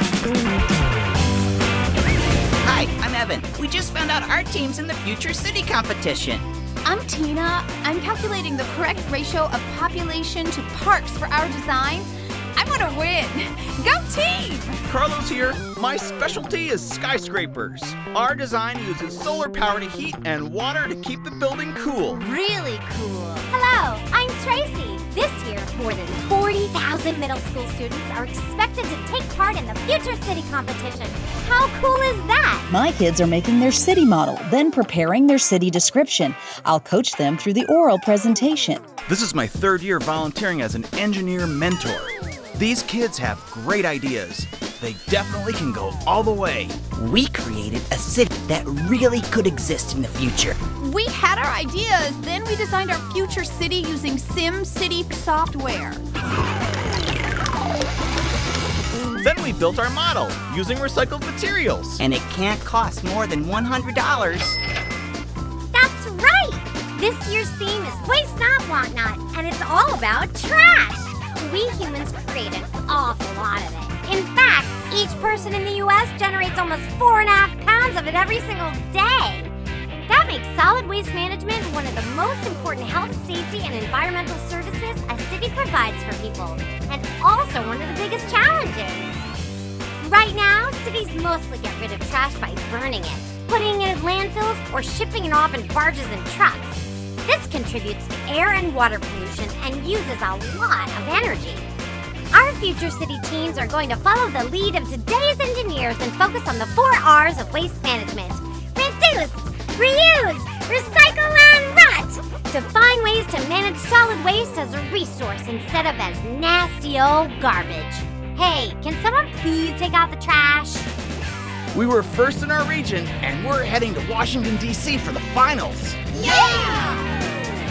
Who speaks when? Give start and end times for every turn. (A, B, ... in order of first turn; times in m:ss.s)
0:02.6-0:06.4 A
0:06.8-0:14.8 B
0:14.9-0:22.2 C
0:22.1-0:23.5 B
0:23.5-0:32.7 D
0:32.7-0:38.8 E
0:39.1-0:46.8 C
0:47.0-0:50.6 A
0:50.8-0:56.0 B
0:59.2-1:02.0 C
1:02.0-1:04.6 A
1:05.7-1:19.5 D
1:20.1-1:29.2 D
1:30.0-1:41.7 D
1:42.3-2:00.9 D
2:01.7-2:06.0 C
2:06.1-2:07.1 B
2:06.2-2:06.9 D